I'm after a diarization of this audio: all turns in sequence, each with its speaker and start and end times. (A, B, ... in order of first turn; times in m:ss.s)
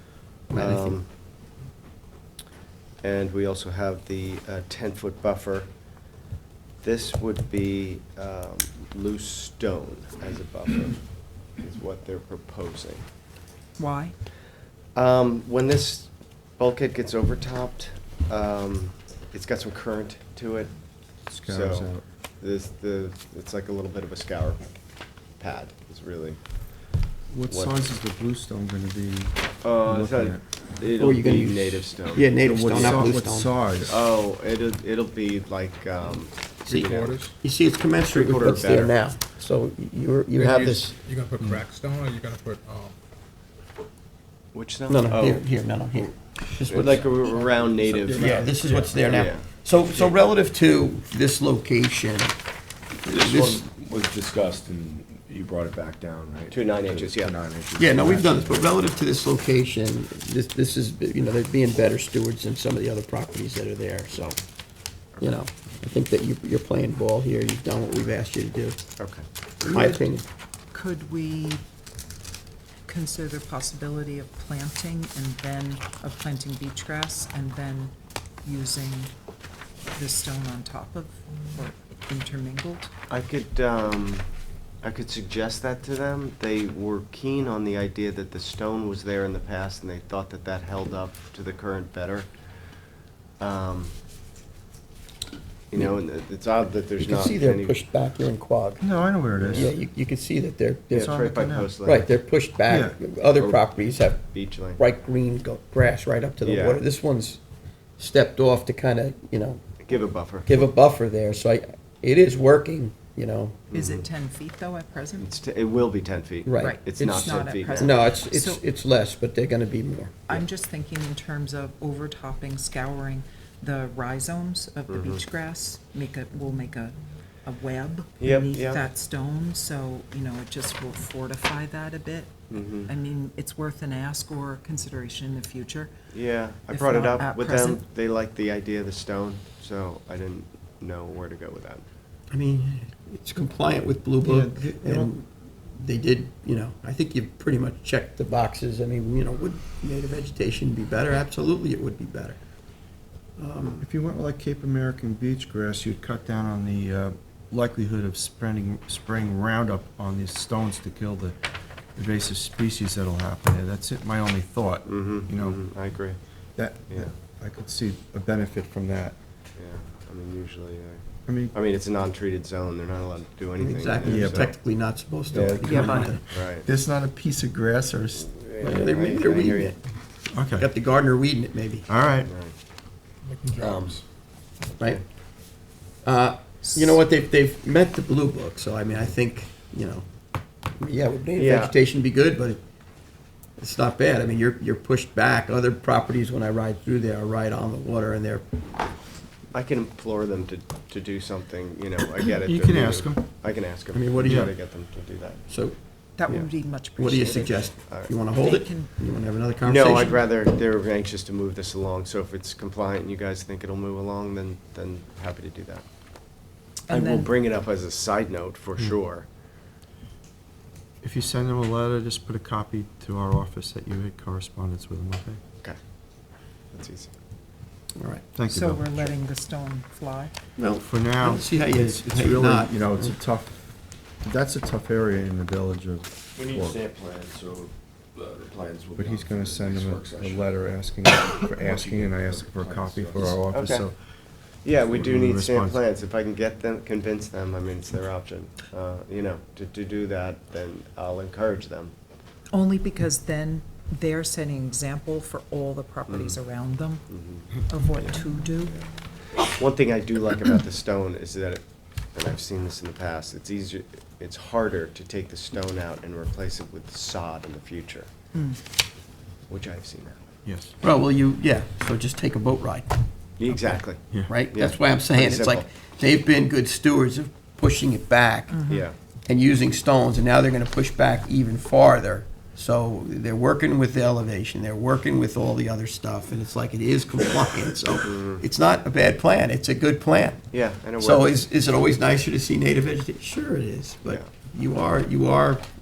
0:00.5-0:01.1 A
0:00.5-0:01.0 B
0:03.0-0:05.7 A
0:06.8-0:13.0 A
0:13.8-0:14.2 C
0:14.9-0:20.7 A
0:21.3-0:22.0 D
0:21.4-0:24.8 A
0:25.4-0:26.4 A
0:27.3-0:30.4 D
0:27.5-0:27.9 A
0:29.6-0:33.2 A
0:31.0-0:33.5 B
0:32.4-0:34.0 D
0:33.9-0:37.2 A
0:36.8-0:37.4 E
0:37.4-0:40.9 B
0:38.1-0:39.0 A
0:40.4-0:43.0 E
0:44.5-0:46.1 A
0:44.9-0:47.2 B
0:46.6-0:50.0 A
0:48.1-0:52.3 B
0:53.0-0:58.7 F
0:53.1-0:53.6 B
0:56.5-0:57.4 A
0:57.8-1:04.4 B
1:05.2-1:08.8 B
1:09.0-1:09.2 A
1:09.6-1:10.2 B
1:09.7-1:10.0 C
1:10.7-1:11.6 C
1:12.8-1:19.1 C
1:19.9-1:22.9 C
1:23.1-1:24.3 A
1:24.8-1:32.3 A
1:33.4-1:33.9 A
1:35.7-1:37.8 A
1:37.0-1:38.8 B
1:38.8-1:39.7 D
1:39.4-1:39.7 A
1:39.5-1:41.2 B
1:40.9-1:42.1 A
1:40.9-1:41.7 D
1:41.8-1:47.4 B
1:42.7-1:43.0 D
1:43.3-1:44.8 A
1:46.4-1:46.8 A
1:48.0-1:49.6 B
1:49.8-1:50.7 A
1:50.4-1:53.7 B
1:53.7-1:54.0 A
1:53.7-1:55.3 C
1:55.2-1:57.9 A
1:56.4-2:00.4 B
1:56.6-1:58.6 C
2:00.3-2:15.9 C
2:04.9-2:05.2 A
2:08.2-2:08.8 A
2:12.5-2:12.9 A
2:16.1-2:21.9 A
2:16.7-2:17.8 C
2:22.3-2:32.4 B
2:24.2-2:25.1 D
2:33.4-2:33.8 B
2:33.8-2:41.4 D
2:42.0-2:45.6 D
2:44.9-2:46.2 A
2:46.6-2:49.2 D
2:49.6-2:54.5 A
2:51.3-2:51.6 D
2:53.6-2:56.2 B
2:54.0-2:54.5 D
2:55.3-2:58.2 D
2:55.3-2:56.7 A
2:55.6-2:56.1 C
2:58.1-2:59.8 A
2:58.6-2:59.8 B
3:00.3-3:00.7 D
3:00.5-3:01.9 B
3:01.9-3:02.3 D
3:02.2-3:02.6 A
3:03.2-3:04.0 E
3:03.6-3:04.0 A
3:06.0-3:10.0 B
3:06.6-3:07.0 C
3:10.8-3:12.6 B
3:11.4-3:11.8 A
3:13.6-3:18.4 B
3:19.5-3:25.4 A
3:22.2-3:23.2 D
3:23.9-3:24.5 B
3:24.2-3:24.5 D
3:25.5-3:25.8 B
3:26.2-3:27.8 C
3:27.0-3:30.2 B
3:27.9-3:28.1 A
3:28.3-3:29.0 C
3:29.6-3:35.8 A
3:36.9-3:37.3 C
3:36.9-3:39.3 A
3:41.0-3:45.4 D
3:46.7-3:47.1 A
3:48.0-3:48.3 B
3:48.3-3:49.2 D
3:48.5-3:50.3 C
3:50.6-3:53.2 B
3:50.8-3:56.8 D
3:56.3-4:03.4 F
3:59.0-4:04.0 D
4:03.5-4:03.9 A
4:04.6-4:11.9 A
4:04.9-4:05.8 D
4:12.5-4:18.8 C
4:16.1-4:16.4 A
4:17.1-4:18.2 A
4:18.7-4:28.1 A
4:28.3-4:28.6 C
4:29.5-4:30.3 A
4:30.4-4:30.8 D
4:30.8-4:32.9 B
4:33.4-4:35.7 A
4:34.0-4:34.3 D
4:34.3-4:38.6 B
4:38.5-4:38.9 C
4:38.7-4:38.9 A
4:39.2-4:50.4 B
4:48.0-4:48.4 A
4:50.5-4:51.3 A
4:51.0-4:55.6 B